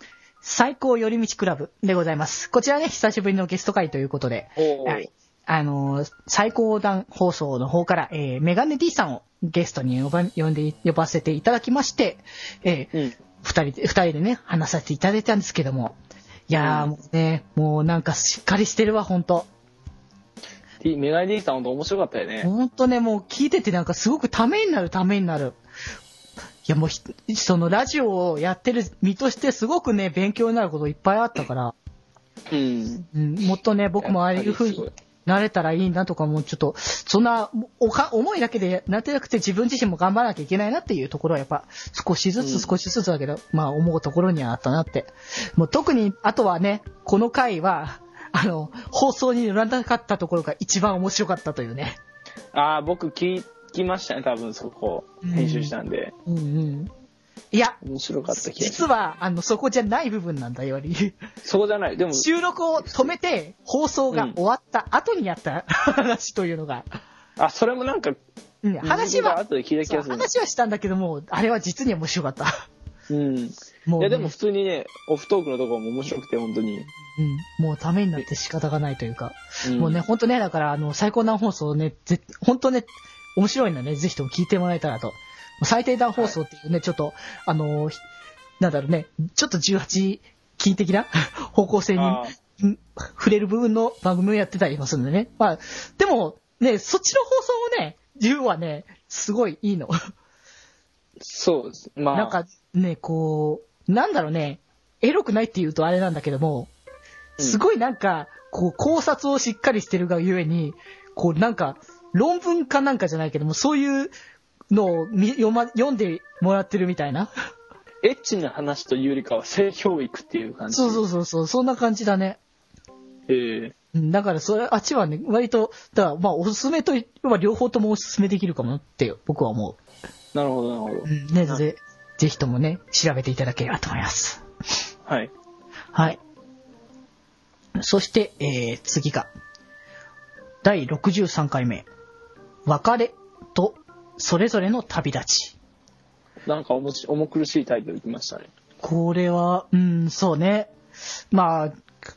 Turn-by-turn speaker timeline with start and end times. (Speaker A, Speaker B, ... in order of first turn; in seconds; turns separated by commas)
Speaker A: 0.4-15.9, Speaker B: 4.6-5.1, Speaker B: 12.9-13.2, Speaker A: 16.5-19.5, Speaker B: 16.5-16.9, Speaker B: 20.8-22.5, Speaker A: 22.4-25.6, Speaker A: 26.6-31.7, Speaker B: 32.5-33.1, Speaker A: 33.1-52.0, Speaker B: 34.0-34.9, Speaker B: 42.4-42.7, Speaker B: 52.5-56.1, Speaker A: 55.2-55.7, Speaker A: 56.3-56.9, Speaker A: 57.5-57.8, Speaker B: 57.8-58.8, Speaker A: 58.3-61.2, Speaker B: 61.4-62.3, Speaker A: 62.1-67.0, Speaker B: 62.9-63.1, Speaker B: 64.1-64.4, Speaker B: 67.4-68.2, Speaker A: 68.6-72.5, Speaker B: 68.8-70.3, Speaker B: 73.1-76.9, Speaker A: 73.9-74.3, Speaker A: 77.0-88.0, Speaker B: 79.6-80.0, Speaker A: 88.6-99.9, Speaker B: 92.0-92.3, Speaker B: 101.2-102.4, Speaker A: 102.1-106.7, Speaker A: 107.4-114.1, Speaker A: 114.7-117.3, Speaker B: 118.0-121.0, Speaker A: 120.7-122.4, Speaker B: 123.3-123.7, Speaker A: 123.9-129.8, Speaker B: 130.3-131.1, Speaker A: 131.1-134.4, Speaker B: 135.1-135.3, Speaker A: 137.8-139.3, Speaker A: 140.6-141.8, Speaker A: 142.7-145.6, Speaker B: 146.4-148.5, Speaker A: 148.8-150.7, Speaker A: 151.3-151.7